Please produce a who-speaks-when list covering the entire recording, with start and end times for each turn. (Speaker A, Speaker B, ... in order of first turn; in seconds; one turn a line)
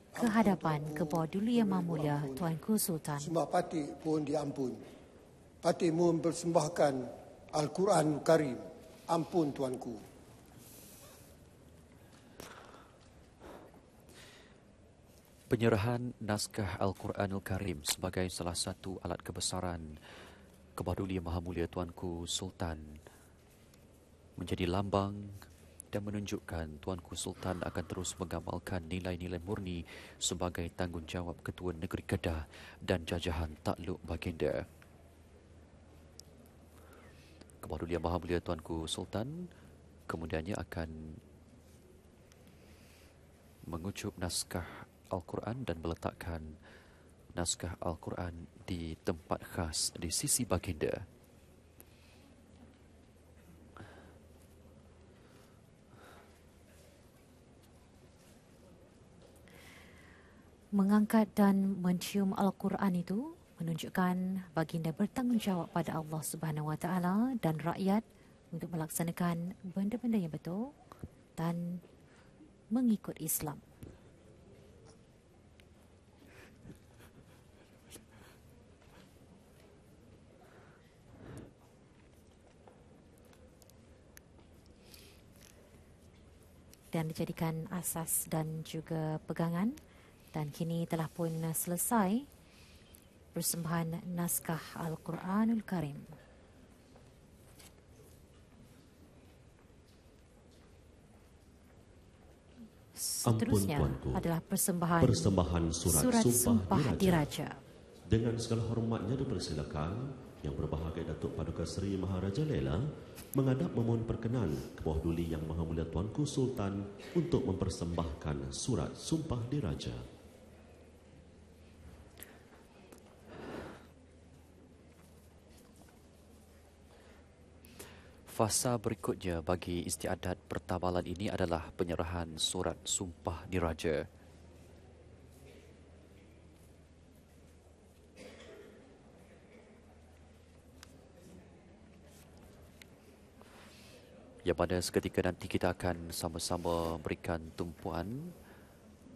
Speaker A: 0.1-2.5
Speaker B: 0.2-3.3
Speaker A: 3.2-4.8
Speaker A: 5.6-10.0
Speaker C: 15.5-20.0
Speaker C: 20.8-23.0
Speaker C: 24.4-34.6
Speaker C: 37.6-39.5
Speaker C: 40.1-41.2
Speaker C: 43.6-46.5
Speaker C: 47.3-51.0
Speaker B: 60.7-70.7
Speaker B: 71.4-71.8
Speaker B: 72.7-73.6
Speaker B: 86.9-89.8
Speaker B: 90.3-92.2
Speaker B: 93.3-96.1
Speaker B: 103.0-107.5
Speaker D: 103.2-104.2
Speaker D: 105.0-107.3
Speaker D: 108.1-112.8
Speaker D: 113.3-120.0
Speaker C: 128.3-134.1
Speaker C: 144.4-148.3